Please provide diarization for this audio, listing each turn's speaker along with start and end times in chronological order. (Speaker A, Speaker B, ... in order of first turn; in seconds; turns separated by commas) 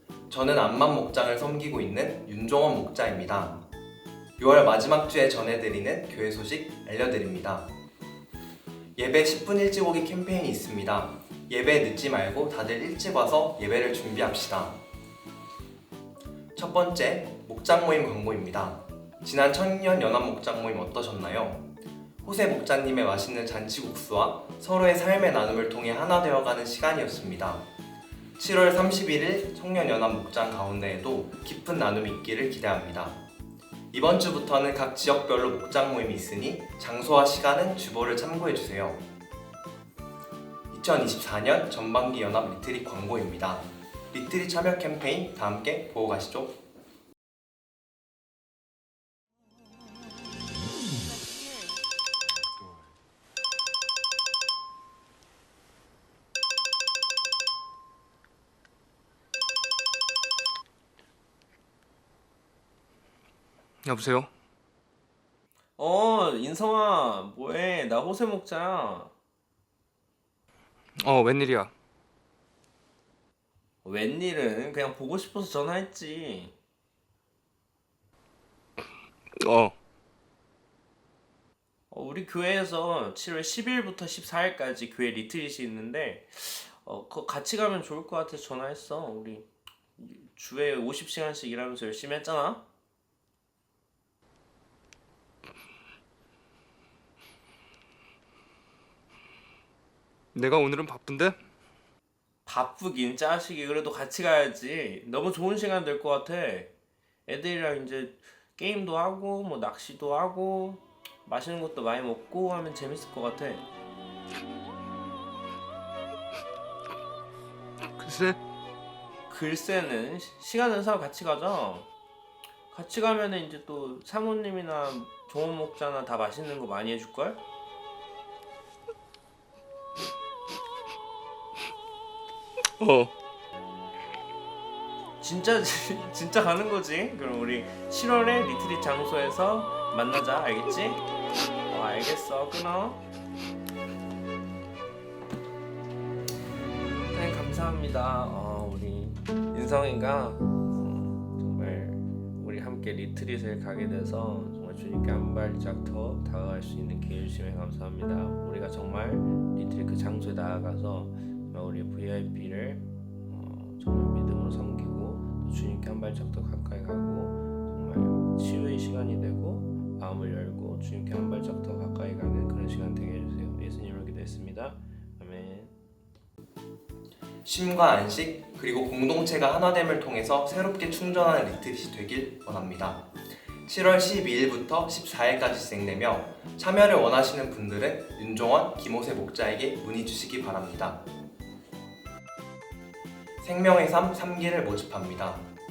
Speaker A: 0.3-3.6, Speaker A: 4.4-7.7, Speaker A: 9.0-14.8, Speaker A: 16.5-21.7, Speaker A: 22.2-27.6, Speaker A: 28.4-33.2, Speaker A: 33.9-39.0, Speaker A: 40.7-46.6, Speaker B: 63.8-64.3, Speaker C: 65.8-69.1, Speaker B: 71.0-71.7, Speaker C: 73.8-76.5, Speaker B: 79.4-79.8, Speaker C: 81.9-92.6, Speaker B: 100.3-101.4, Speaker C: 102.5-106.7, Speaker C: 107.3-113.7, Speaker B: 118.0-118.4, Speaker C: 119.3-121.9, Speaker C: 122.7-127.4, Speaker B: 132.8-133.1, Speaker C: 135.2-141.1, Speaker C: 141.7-143.0, Speaker C: 147.1-175.7, Speaker A: 177.4-183.1, Speaker A: 183.7-191.0, Speaker A: 193.4-195.5